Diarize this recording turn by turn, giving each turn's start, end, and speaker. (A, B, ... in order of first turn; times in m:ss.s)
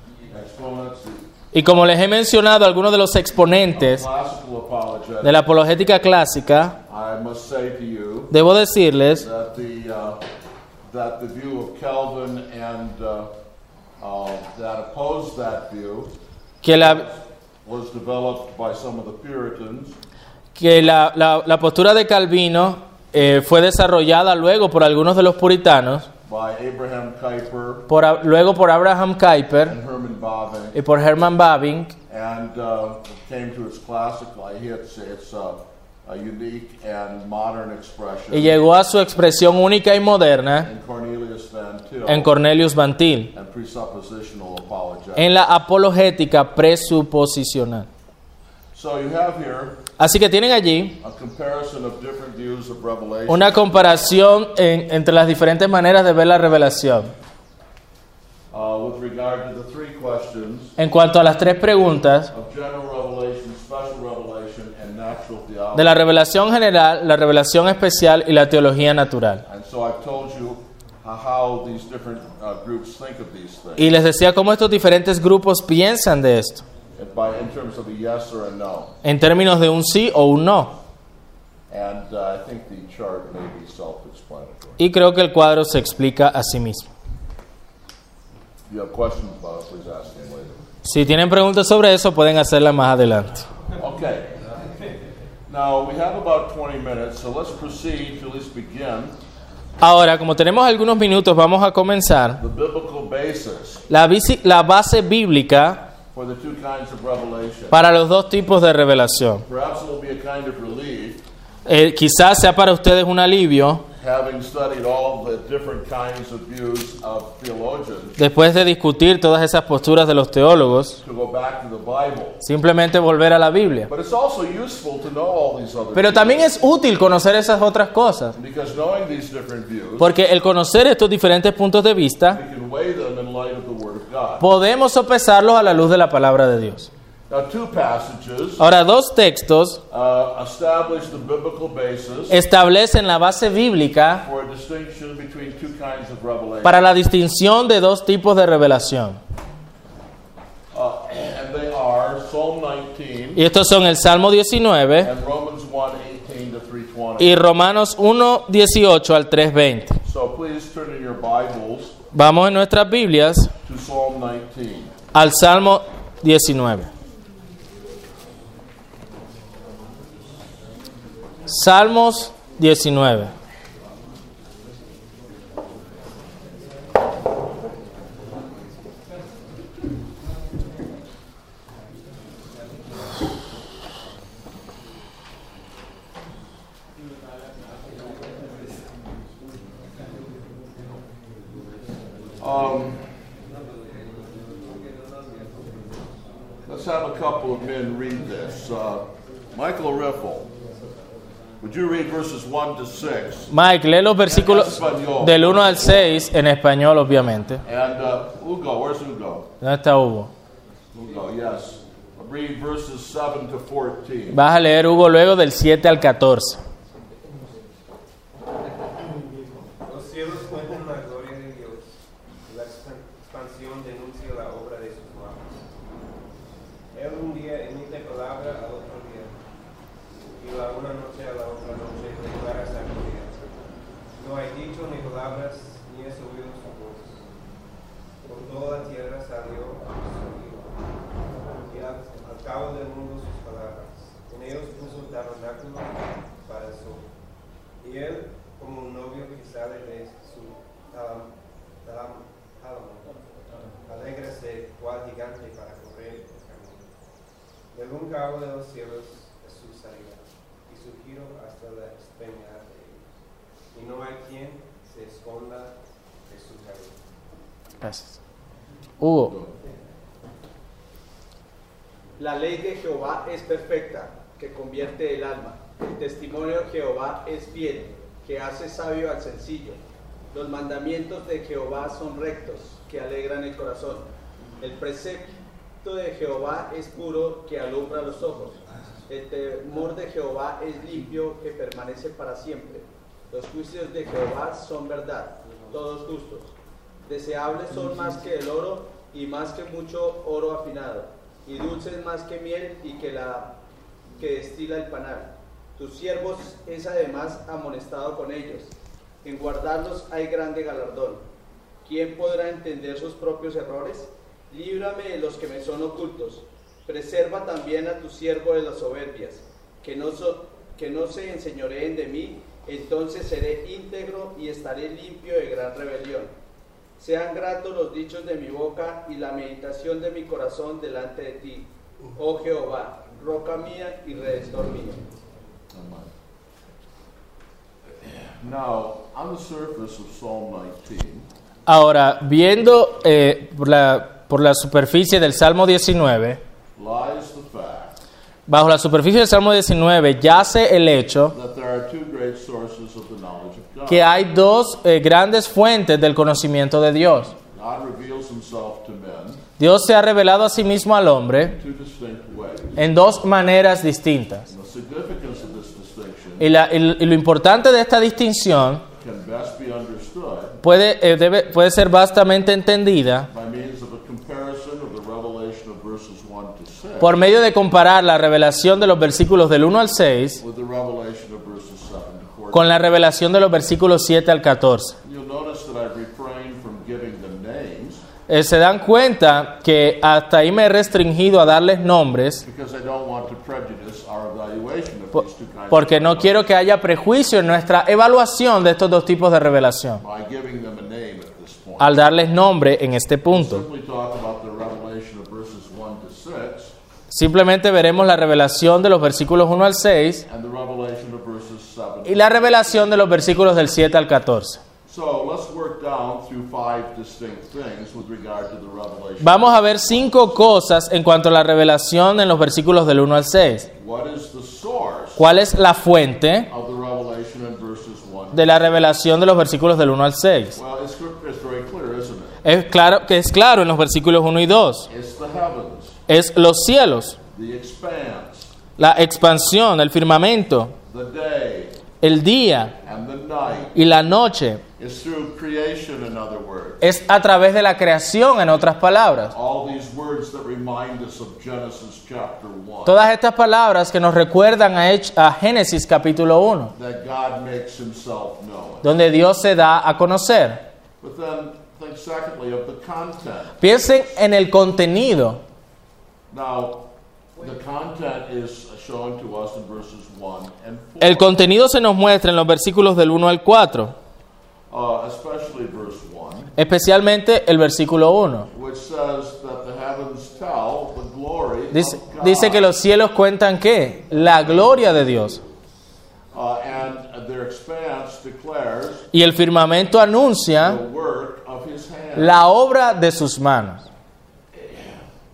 0:00.3-0:01.3 A
0:01.5-0:04.1 B
0:03.7-0:05.4 A
0:05.2-0:06.8 B
0:06.9-0:08.3 A
0:08.3-0:09.3 B
0:09.2-0:10.2 A
0:10.9-0:13.3 A
0:14.0-0:16.1 A
0:16.6-0:17.1 B
0:16.8-0:20.0 A
0:20.6-0:26.1 B
0:26.3-0:27.9 A
0:27.9-0:29.8 B
0:29.7-0:30.8 A
0:30.8-0:31.9 B
0:32.1-0:38.6 A
0:38.3-0:40.7 B
0:40.6-0:42.3 A
0:42.1-0:43.3 B
0:43.3-0:45.3 A
0:45.2-0:47.9 B
0:48.7-0:49.8 A
0:50.0-0:51.0 B
0:51.0-0:54.2 A
0:53.3-0:57.1 B
0:58.5-1:00.8 A
1:00.8-1:02.3 B
1:02.3-1:06.0 A
1:05.8-1:09.4 B
1:09.5-1:13.9 A
1:13.8-1:16.6 B
1:17.0-1:18.9 A
1:19.0-1:20.8 B
1:21.7-1:24.8 A
1:24.8-1:26.9 B
1:28.7-1:30.6 A
1:30.8-1:33.5 B
1:33.8-1:34.3 A
1:35.5-1:39.2 A
1:39.8-1:42.4 B
1:42.4-1:43.8 A
1:43.9-1:45.9 B
1:46.1-1:47.8 A
1:47.7-1:49.4 B
1:49.5-1:51.2 A
1:51.7-1:53.8 B
1:54.0-1:58.2 A
1:58.2-2:01.0 B
2:01.0-2:02.4 A
2:02.4-2:03.9 B
2:03.9-2:06.5 A
2:06.0-2:08.4 B
2:08.4-2:10.1 A
2:10.0-2:12.4 B
2:12.3-2:14.4 A
2:14.4-2:16.9 B
2:17.3-2:18.6 A
2:18.6-2:19.8 B
2:19.9-2:22.4 A
2:22.3-2:24.2 B
2:24.2-2:26.8 A
2:26.6-2:29.2 B
2:30.7-2:33.4 A
2:33.4-2:35.1 B
2:35.0-2:37.3 A
2:37.2-2:40.0 B
2:40.0-2:42.0 A
2:42.1-2:43.5 B
2:43.6-2:44.9 A
2:45.1-2:46.9 B
2:51.5-2:53.3 B
3:12.4-3:13.1 A
3:16.7-3:20.5 A
3:21.6-3:23.5 A
3:23.5-3:27.6 B
3:24.3-3:26.3 A
3:27.6-3:29.5 A
3:29.6-3:30.3 B
3:30.9-3:34.4 A
3:34.3-3:36.6 B
3:39.8-3:41.9 C
3:42.5-3:45.6 C
3:46.9-3:49.4 C
3:50.4-3:57.3 C
3:58.2-4:00.8 C
4:01.3-4:07.1 C
4:07.8-4:11.3 C
4:11.8-4:13.1 C
4:13.8-4:16.9 C
4:17.7-4:23.1 C
4:23.7-4:27.0 C
4:27.8-4:28.2 B
4:29.0-4:29.3 B
4:29.2-4:29.5 A
4:32.2-4:39.8 D
4:40.3-4:44.1 D
4:44.6-4:56.5 D
4:57.0-5:03.5 D
5:04.2-5:08.7 D
5:09.2-5:11.2 D
5:11.8-5:26.3 D
5:27.0-5:35.0 D
5:35.7-5:36.1 A
5:38.0-5:41.3 A
5:41.7-5:46.4 B
5:46.8-5:48.0 A
5:48.5-5:51.3 B
5:51.3-5:54.1 A
5:53.9-5:57.3 B
5:57.5-5:59.4 A
5:59.6-6:01.6 B
6:01.5-6:02.8 A
6:02.8-6:04.5 B
6:04.5-6:06.5 A
6:06.4-6:08.8 B
6:09.0-6:10.6 A
6:10.6-6:13.3 B
6:13.3-6:17.1 A
6:17.0-6:20.4 B
6:20.4-6:22.8 A
6:22.5-6:25.0 B
6:25.0-6:28.0 A
6:28.3-6:32.4 B
6:32.4-6:36.5 A
6:35.7-6:40.0 B
6:40.0-6:42.0 A
6:41.8-6:43.7 B
6:43.3-6:46.7 A
6:47.1-6:50.2 B
6:50.3-6:52.9 A
6:52.0-6:54.6 B
6:54.9-7:00.5 A
6:59.2-7:03.7 B
7:03.8-7:05.2 A
7:05.2-7:06.5 B
7:06.5-7:08.5 A
7:08.3-7:10.6 B
7:10.6-7:12.4 A
7:12.4-7:14.9 B
7:14.9-7:16.0 A
7:16.1-7:17.2 B
7:17.3-7:18.5 A
7:18.8-7:20.7 B
7:20.9-7:21.8 A
7:22.0-7:22.8 B
7:22.8-7:23.8 A
7:23.8-7:24.6 B
7:24.8-7:26.8 A
7:26.8-7:29.3 B
7:29.3-7:33.0 A
7:32.9-7:36.7 B
7:36.8-7:38.9 A
7:38.8-7:40.6 B
7:41.0-7:43.8 A
7:43.6-7:45.4 B
7:46.3-7:46.8 A
7:47.4-7:51.4 A
7:51.0-7:54.0 B
7:54.7-7:56.5 A
7:56.6-7:58.5 B
7:58.5-8:02.7 A
8:01.7-8:05.4 B
8:04.2-8:05.5 A
8:06.3-8:09.1 A
8:09.1-8:10.8 B
8:10.6-8:12.4 A
8:12.2-8:13.9 B
8:14.5-8:15.1 A